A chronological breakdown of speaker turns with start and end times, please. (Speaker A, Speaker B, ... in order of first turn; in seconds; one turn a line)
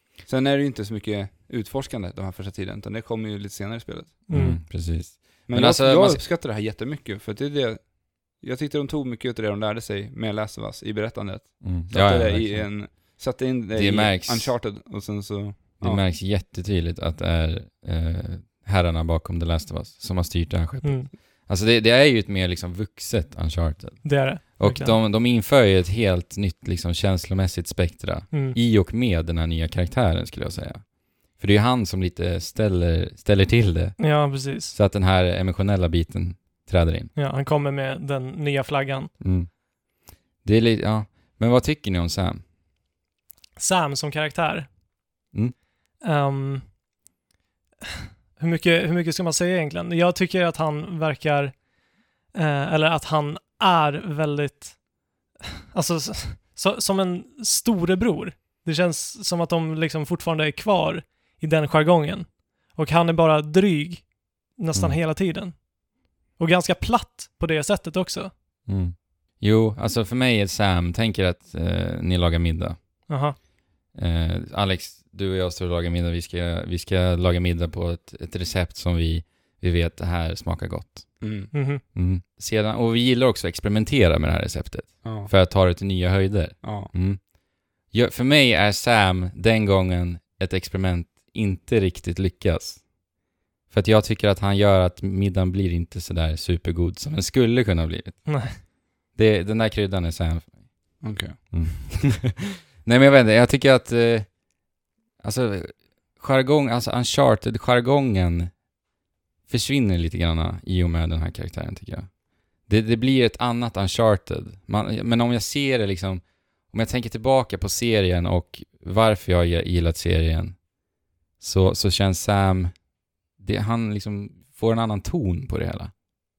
Speaker A: 0.2-4.3
Speaker B: 4.3-4.6
Speaker C: 4.3-6.2
Speaker A: 5.5-16.0
Speaker C: 11.6-12.7
Speaker C: 13.7-14.5
Speaker C: 15.8-34.1
Speaker B: 20.8-21.1
Speaker B: 24.0-25.0
Speaker B: 28.3-28.6
Speaker B: 34.0-34.8
Speaker C: 34.7-37.1
Speaker B: 37.1-39.1
Speaker C: 39.2-39.5
Speaker C: 40.4-42.4
Speaker B: 43.6-44.7
Speaker B: 46.0-46.6
Speaker B: 48.4-51.5
Speaker B: 52.3-54.8
Speaker B: 55.7-65.7
Speaker C: 64.7-65.0
Speaker B: 66.3-68.3
Speaker C: 68.7-72.8
Speaker B: 73.1-73.3
Speaker C: 73.9-81.2
Speaker A: 81.2-81.5
Speaker B: 81.5-81.8
Speaker C: 81.9-87.2
Speaker A: 85.0-85.3
Speaker A: 86.6-86.9
Speaker C: 87.9-92.9
Speaker C: 93.7-100.6
Speaker B: 98.3-98.6
Speaker A: 101.0-101.4
Speaker C: 101.5-104.3
Speaker C: 105.2-108.5
Speaker C: 109.5-112.1
Speaker C: 112.7-120.6
Speaker C: 121.4-122.8
Speaker C: 123.4-125.9